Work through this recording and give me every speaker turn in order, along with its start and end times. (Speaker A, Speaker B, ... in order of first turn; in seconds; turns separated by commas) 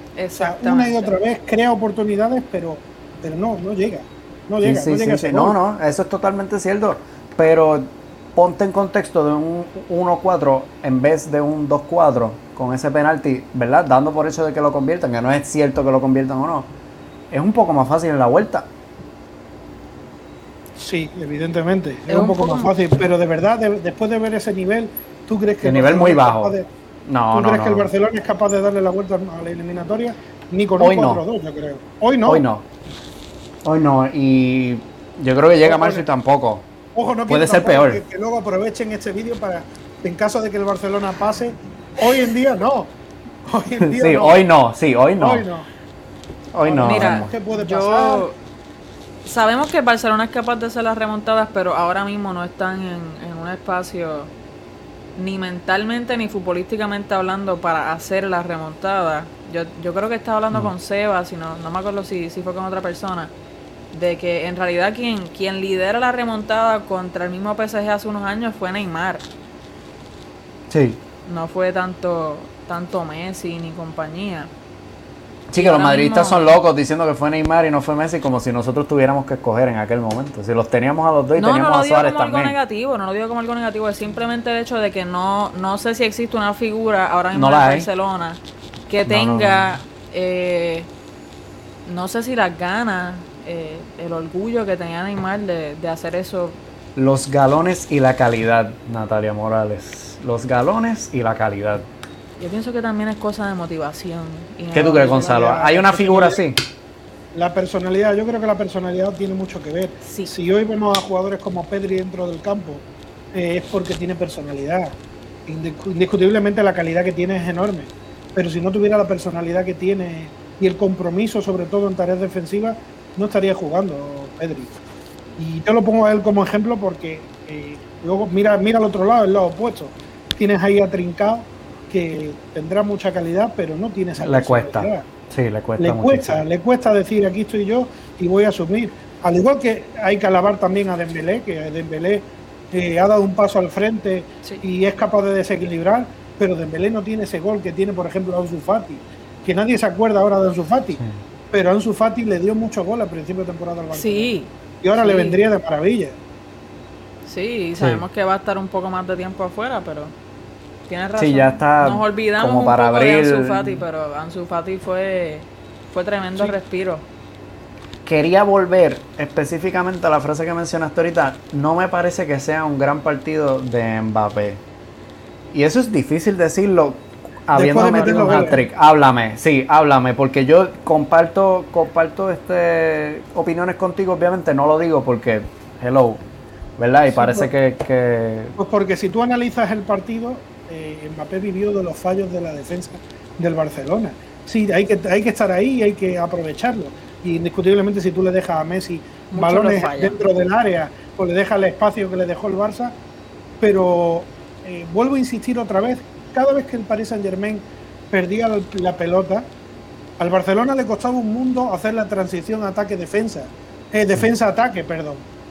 Speaker A: 0.1-1.1, Speaker B: 0.4-5.5, Speaker C: 4.6-16.7, Speaker C: 17.3-18.7, Speaker B: 20.8-26.7, Speaker A: 22.1-22.7, Speaker C: 25.6-26.5, Speaker C: 27.1-27.9, Speaker B: 27.3-32.4, Speaker C: 30.8-31.2, Speaker C: 32.2-32.6, Speaker C: 33.6-36.7, Speaker B: 35.6-36.0, Speaker B: 36.9-42.9, Speaker C: 37.3-38.0, Speaker B: 43.5-44.4, Speaker C: 43.8-45.4, Speaker B: 45.2-45.7, Speaker C: 46.5-47.3, Speaker B: 46.6-48.2, Speaker A: 46.8-48.4, Speaker A: 49.2-54.3, Speaker A: 55.2-63.3, Speaker A: 63.9-69.2, Speaker C: 70.7-71.0, Speaker A: 71.2-74.5, Speaker C: 75.5-82.5, Speaker A: 75.6-76.6, Speaker A: 81.3-90.9, Speaker C: 87.3-87.9, Speaker C: 89.1-89.7, Speaker A: 91.8-96.6, Speaker C: 97.0-101.8, Speaker A: 102.4-105.5, Speaker C: 104.7-106.6, Speaker B: 105.1-106.4, Speaker B: 107.3-115.0, Speaker A: 110.0-110.3, Speaker B: 115.5-124.7, Speaker B: 125.4-135.0, Speaker C: 134.2-136.4, Speaker B: 135.8-156.2, Speaker A: 153.9-155.4, Speaker A: 157.2-160.1, Speaker C: 157.8-158.0, Speaker A: 160.9-167.0, Speaker C: 161.2-163.8, Speaker C: 168.0-174.6, Speaker C: 175.5-186.2, Speaker B: 177.5-178.6, Speaker C: 186.8-188.5, Speaker B: 187.1-187.5, Speaker B: 188.6-202.9, Speaker A: 199.3-200.2, Speaker B: 203.6-209.5, Speaker B: 210.2-215.2